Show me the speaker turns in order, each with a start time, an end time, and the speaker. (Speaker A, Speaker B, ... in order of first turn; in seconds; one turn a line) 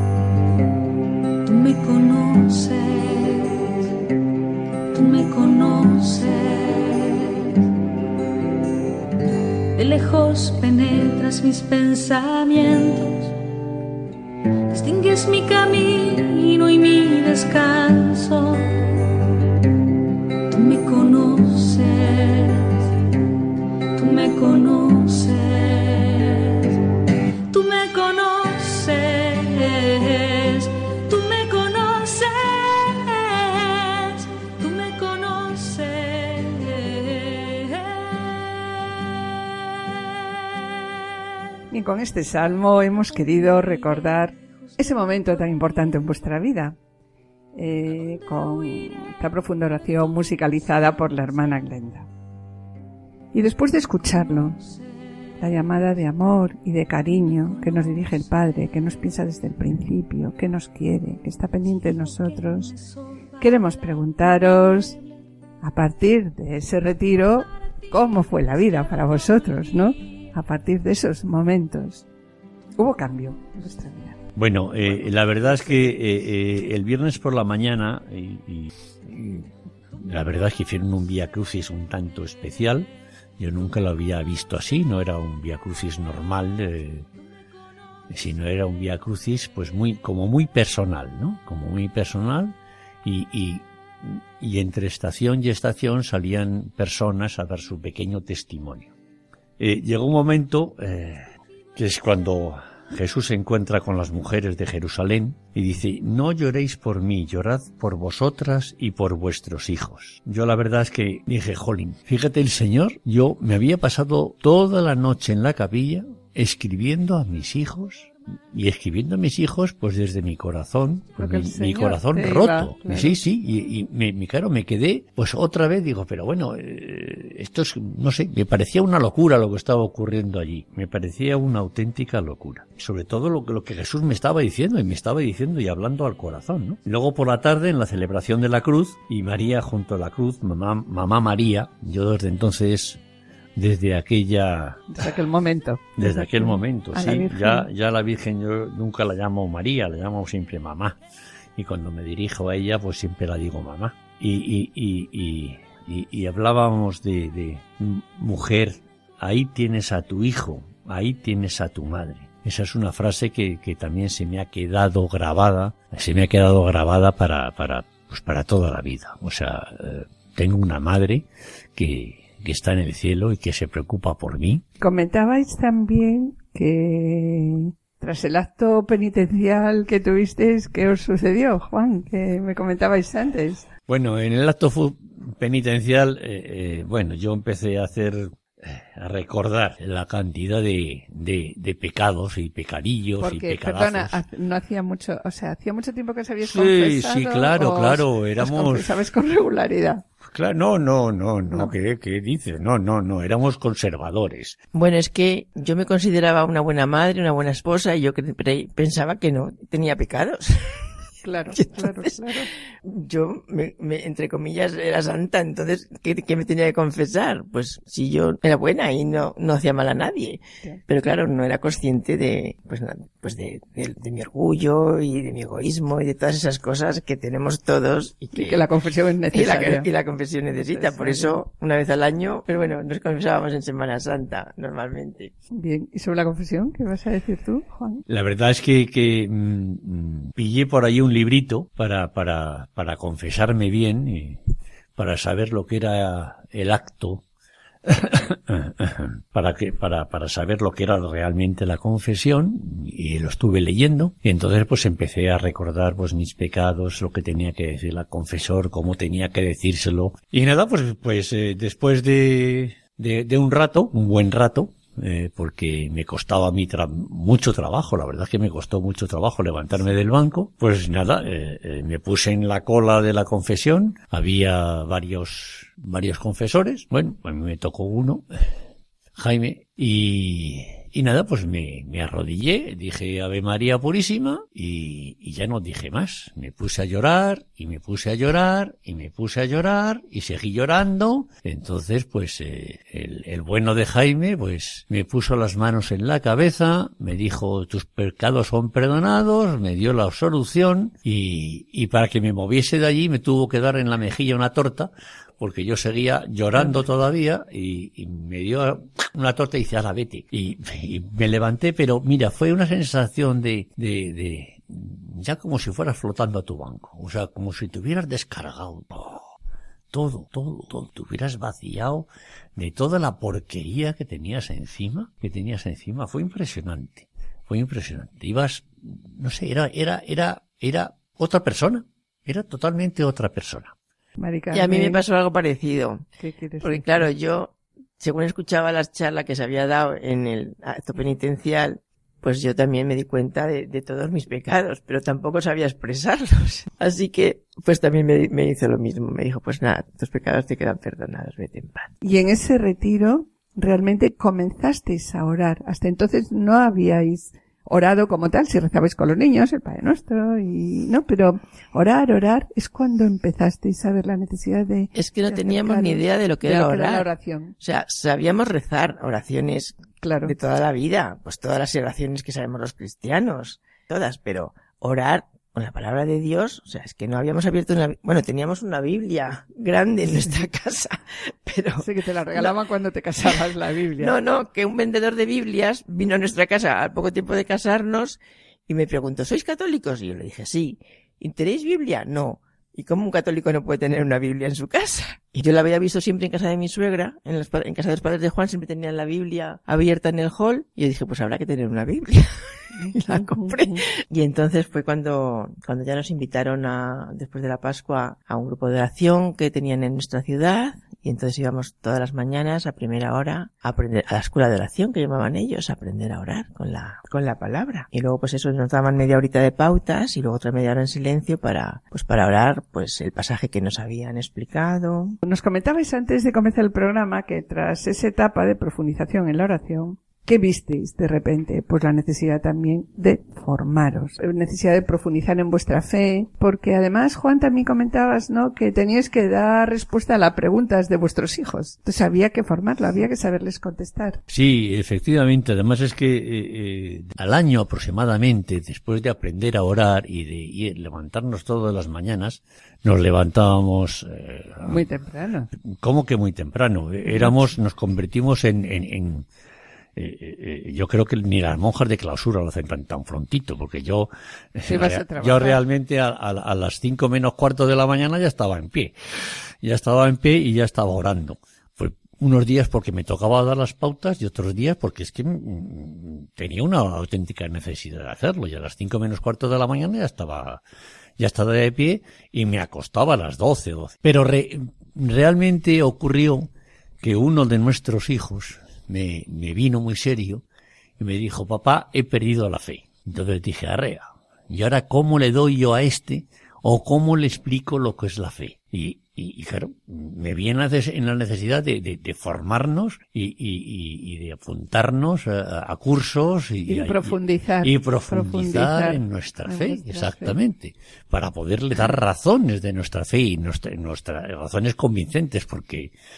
Speaker A: 1.4-3.5
Speaker A: 4.9-7.3
Speaker A: 9.7-13.3
Speaker A: 14.7-18.7
Speaker A: 20.5-22.7
Speaker A: 23.9-26.6
Speaker A: 27.5-38.4
Speaker B: 41.7-46.8
Speaker A: 43.6-44.3
Speaker B: 47.5-52.1
Speaker B: 53.3-54.6
Speaker B: 55.4-62.7
Speaker B: 63.4-65.0
Speaker B: 65.6-72.0
Speaker B: 72.8-74.2
Speaker C: 74.3-87.1
Speaker C: 88.1-98.9
Speaker C: 99.6-143.0
Speaker B: 121.2-123.2
Speaker C: 143.6-144.9
Speaker B: 144.9-147.7
Speaker C: 146.0-151.0
Speaker C: 151.6-174.6
Speaker B: 174.8-183.7
Speaker C: 183.9-194.2
Speaker B: 193.2-200.0
Speaker C: 196.4-198.9
Speaker C: 200.2-204.6
Speaker D: 204.7-210.9
Speaker B: 211.2-212.5
Speaker D: 211.5-212.3
Speaker D: 212.8-228.6
Speaker B: 228.3-229.9
Speaker D: 229.3-235.3
Speaker B: 230.5-231.4
Speaker B: 235.5-238.0
Speaker C: 238.1-244.4
Speaker C: 244.9-247.2
Speaker C: 247.8-278.2
Speaker C: 279.2-319.2
Speaker C: 319.9-333.7
Speaker B: 334.2-335.0
Speaker D: 334.5-336.0
Speaker B: 336.2-337.1
Speaker D: 336.6-351.9
Speaker B: 352.0-367.5
Speaker D: 364.9-382.5
Speaker B: 370.0-370.3
Speaker B: 381.8-384.1
Speaker D: 383.2-425.1
Speaker B: 402.8-403.8
Speaker B: 425.2-444.2
Speaker C: 444.3-454.8
Speaker B: 454.6-455.5
Speaker C: 455.8-459.2
Speaker B: 457.1-457.5
Speaker C: 459.9-480.6
Speaker B: 464.6-465.6
Speaker C: 481.2-486.5
Speaker C: 487.0-490.4
Speaker C: 491.0-515.9
Speaker B: 506.7-510.4